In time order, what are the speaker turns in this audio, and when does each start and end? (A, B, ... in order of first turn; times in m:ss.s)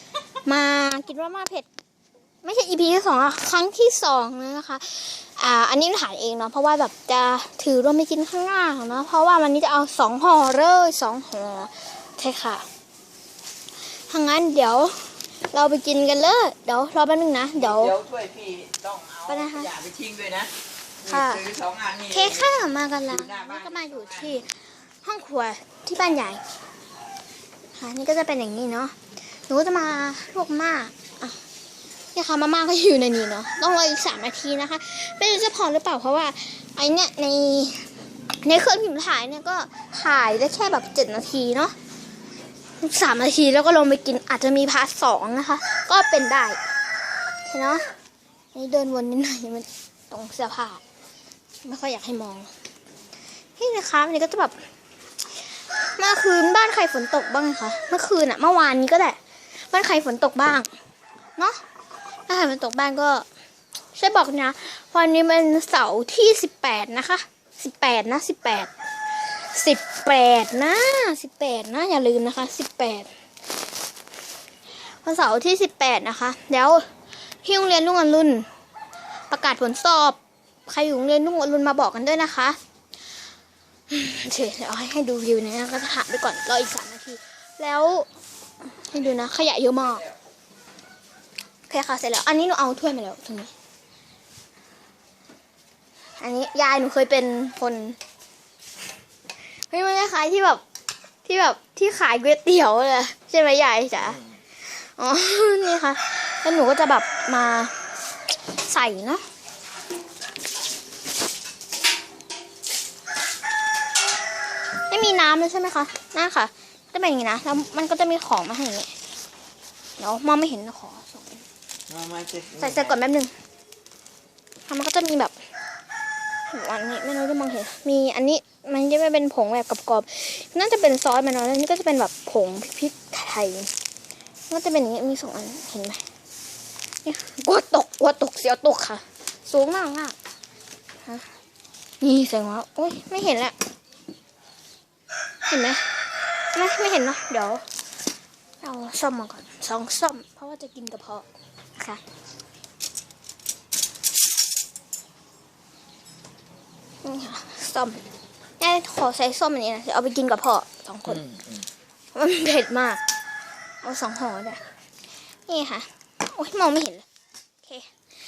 0:00.4-0:01.7 A
0:02.4-0:12.6 A
0:13.9-0:18.0 A
0:17.6-0:20.5 B
0:19.3-0:19.7 A
0:21.0-0:22.5 B
0:21.0-0:21.5 A
0:22.1-0:26.4 A
0:23.1-0:24.4 B
0:27.7-0:31.4 A
0:32.1-0:37.9 A
0:38.4-0:41.7 A
0:42.8-0:46.6 A
0:47.4-0:47.8 A
0:48.5-0:50.8 A
0:51.6-0:52.5 A
0:53.6-0:54.5 A
0:55.8-0:59.2 A
0:59.7-1:00.7 A
1:02.3-1:03.2 A
1:03.9-1:08.7 A
1:09.3-1:13.1 A
1:15.0-1:16.9 A
1:17.4-1:18.5 A
1:19.3-1:22.6 A
1:23.9-1:28.1 A
1:28.8-1:30.1 A
1:31.7-1:33.5 A
1:36.2-1:38.0 A
1:39.7-1:40.6 A
1:41.2-1:47.8 A
1:48.5-1:49.2 A
1:54.9-1:58.9 A
2:00.0-2:01.4 A
2:01.9-2:03.0 B
2:02.6-2:03.3 A
2:04.7-2:05.3 A
2:06.5-2:13.7 A
2:14.5-2:16.0 A
2:17.0-2:20.1 A
2:22.0-2:23.5 A
2:25.5-2:27.6 A
2:28.6-2:32.0 A
2:37.0-2:38.0 A
2:38.6-2:41.3 A
2:42.1-2:43.0 A
2:43.8-2:44.6 A
2:45.5-2:47.0 A
2:47.6-2:47.9 A